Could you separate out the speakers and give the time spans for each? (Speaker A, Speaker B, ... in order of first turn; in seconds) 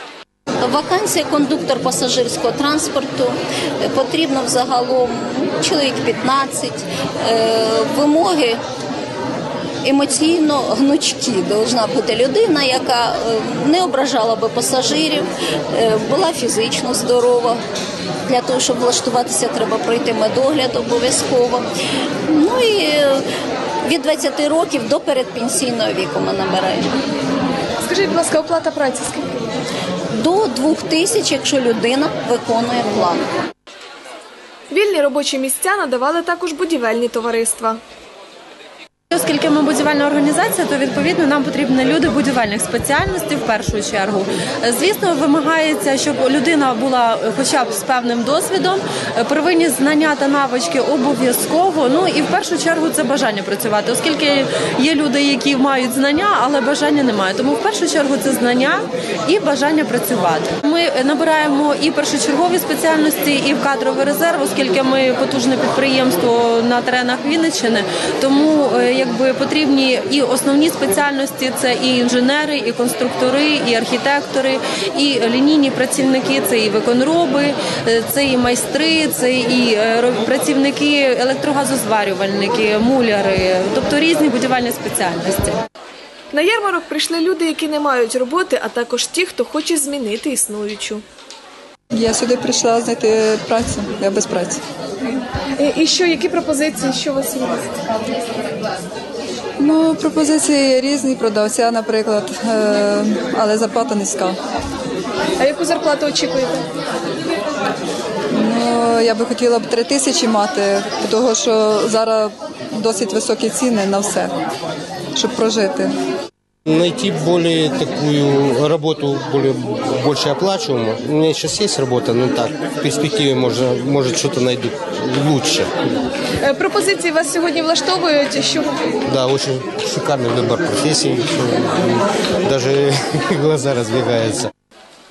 Speaker A: 0.6-8.6, 9.8-17.6, 18.3-21.7, 22.3-23.2, 23.8-27.0, 30.1-33.3
Speaker B: 27.8-29.4, 34.7-37.8, 86.3-91.0, 95.6-97.8, 105.4-106.6, 126.4-128.7
Speaker C: 39.1-85.6
Speaker D: 92.0-94.4, 99.6-104.3, 108.4-112.3, 112.8-114.3, 115.2-115.8
Speaker E: 116.7-125.7, 129.1-134.5